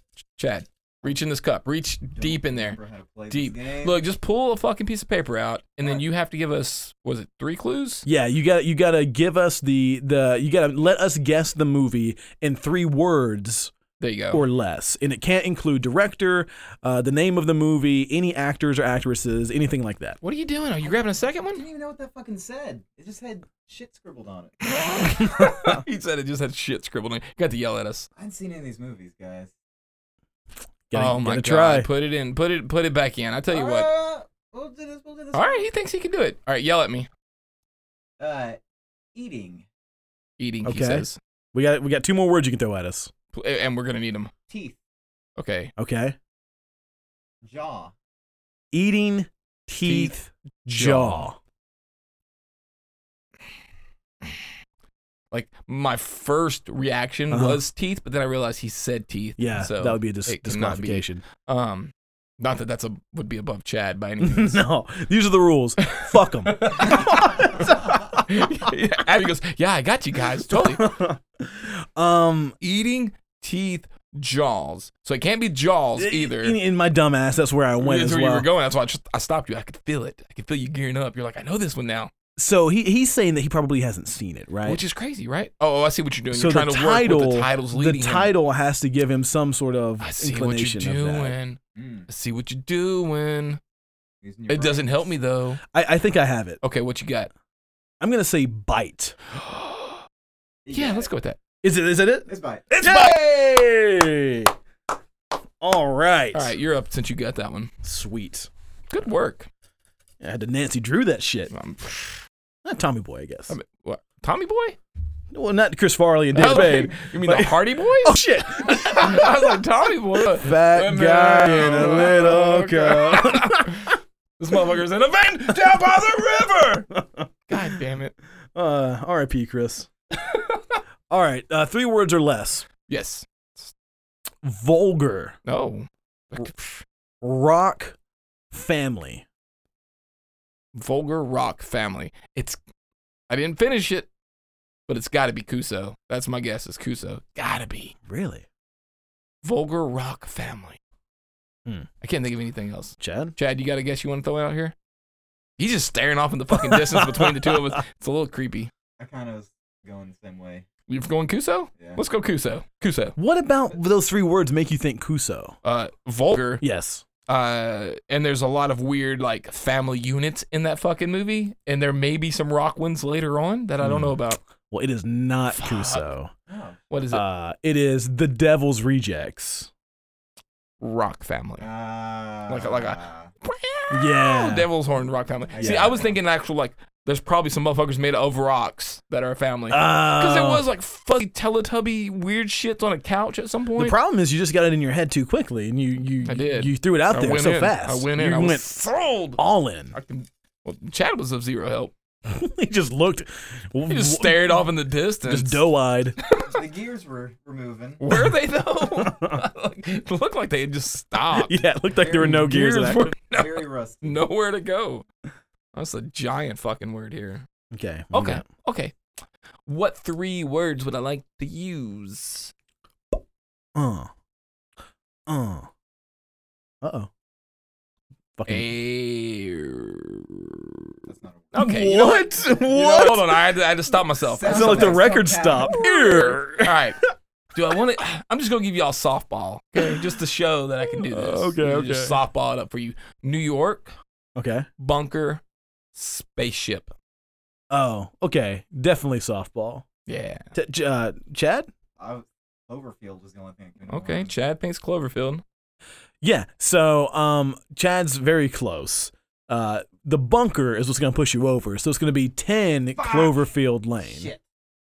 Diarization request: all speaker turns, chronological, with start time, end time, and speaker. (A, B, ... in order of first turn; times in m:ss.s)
0:00.4-0:02.8 A
0:02.2-0:04.0 B
0:03.3-0:08.0 A
0:08.0-0:13.7 C
0:14.0-0:14.4 A
0:14.3-0:20.2 C
0:20.2-0:21.6 A
0:20.8-0:25.2 B
0:24.7-0:28.1 A
0:25.4-0:25.8 C
0:28.2-0:29.5 B
0:30.9-0:31.9 C
0:30.9-0:33.9 A
0:33.5-0:35.7 B
0:35.3-0:37.1 A
0:38.2-0:38.6 B
0:39.2-0:39.7 B
0:40.4-0:41.2 A
0:40.6-0:43.1 C
0:43.3-0:44.3 A
0:44.5-0:44.8 B
0:45.4-0:45.7 A
0:45.8-0:46.2 C
0:47.4-0:47.9 B
0:48.7-0:51.4 C
0:49.8-0:50.2 A
0:50.7-0:51.3 A
0:55.3-1:04.6 A
0:57.3-0:57.6 C
0:59.4-1:01.2 C
1:04.2-1:08.2 C
1:05.9-1:10.9 A
1:10.5-1:12.6 C
1:12.6-1:16.6 A
1:16.0-1:18.5 C
1:17.8-1:22.1 A
1:22.4-1:24.8 C
1:24.6-1:28.3 A
1:26.3-1:31.4 C
1:30.0-1:33.6 A
1:31.8-1:32.1 B
1:34.2-1:35.1 B
1:34.5-1:35.6 A
1:35.7-1:36.6 C
1:36.6-1:37.3 A
1:38.0-1:39.2 C
1:39.3-1:40.0 A
1:40.6-1:41.1 B
1:40.7-1:41.4 A
1:41.6-1:44.5 C
1:42.3-1:42.8 B
1:45.6-1:46.5 C
1:46.3-1:47.7 A
1:47.8-1:48.5 C
1:48.9-1:49.5 A
1:50.2-1:51.5 C
1:51.5-1:52.2 A
1:52.6-1:53.6 C
1:53.5-1:54.8 A
1:55.3-1:59.5 C
1:56.3-2:06.9 A
2:00.4-2:03.9 C
2:06.9-2:07.6 C
2:07.5-2:08.1 A
2:08.6-2:09.9 C
2:10.2-2:10.8 A
2:11.1-2:12.7 C
2:12.9-2:13.7 A
2:14.4-2:15.4 C
2:15.4-2:16.8 A
2:17.2-2:18.0 C
2:18.5-2:19.2 C
2:20.8-2:22.6 A
2:23.3-2:24.1 A
2:24.9-2:28.0 A
2:28.1-2:28.5 C
2:29.4-2:30.8 A
2:32.0-2:34.8 A
2:33.0-2:33.4 C
2:35.6-2:38.7 A
2:36.6-2:37.7 C
2:39.0-2:40.7 B
2:40.9-2:43.2 A
2:43.2-2:45.6 C
2:45.6-2:46.6 A
2:46.6-2:47.0 C
2:47.3-2:54.4 A
2:53.8-2:54.2 C
2:54.7-2:56.3 C
2:55.5-2:56.1 A
2:56.5-2:56.8 B
2:56.9-2:57.2 A
2:57.1-2:59.7 C
3:00.8-3:01.7 A
3:01.6-3:03.3 B
3:02.5-3:14.0 A
3:03.9-3:04.7 C
3:05.5-3:06.2 B
3:05.6-3:05.9 C
3:09.7-3:10.7 C
3:13.8-3:18.7 C
3:16.2-3:19.4 A
3:19.4-3:19.9 C
3:19.9-3:21.9 A
3:22.2-3:24.6 C
3:23.9-3:25.6 A
3:25.2-3:26.2 C
3:26.4-3:28.0 B
3:28.0-3:35.1 A
3:29.0-3:29.4 C
3:31.4-3:33.1 C
3:33.3-3:34.3 B
3:35.7-3:37.5 A
3:37.7-3:38.4 C
3:38.1-3:39.0 A
3:39.7-3:42.5 A
3:43.8-3:44.1 C
3:45.3-3:45.7 C
3:46.8-3:47.1 C
3:48.4-3:48.7 C
3:48.5-3:50.6 A
3:51.1-3:51.6 B
3:51.5-3:55.1 A
3:51.6-3:53.4 C
3:54.3-3:55.9 B
3:54.5-3:57.0 C
3:55.7-3:57.0 A
3:57.5-4:03.9 A
4:00.9-4:02.2 C
4:04.4-4:04.7 C
4:04.8-4:05.4 A
4:05.9-4:06.9 A
4:07.7-4:09.9 C
4:10.1-4:10.5 A
4:10.5-4:11.7 C
4:12.0-4:14.3 B
4:13.9-4:15.4 A
4:16.2-4:24.3 C
4:23.0-4:23.4 B
4:24.0-4:24.4 B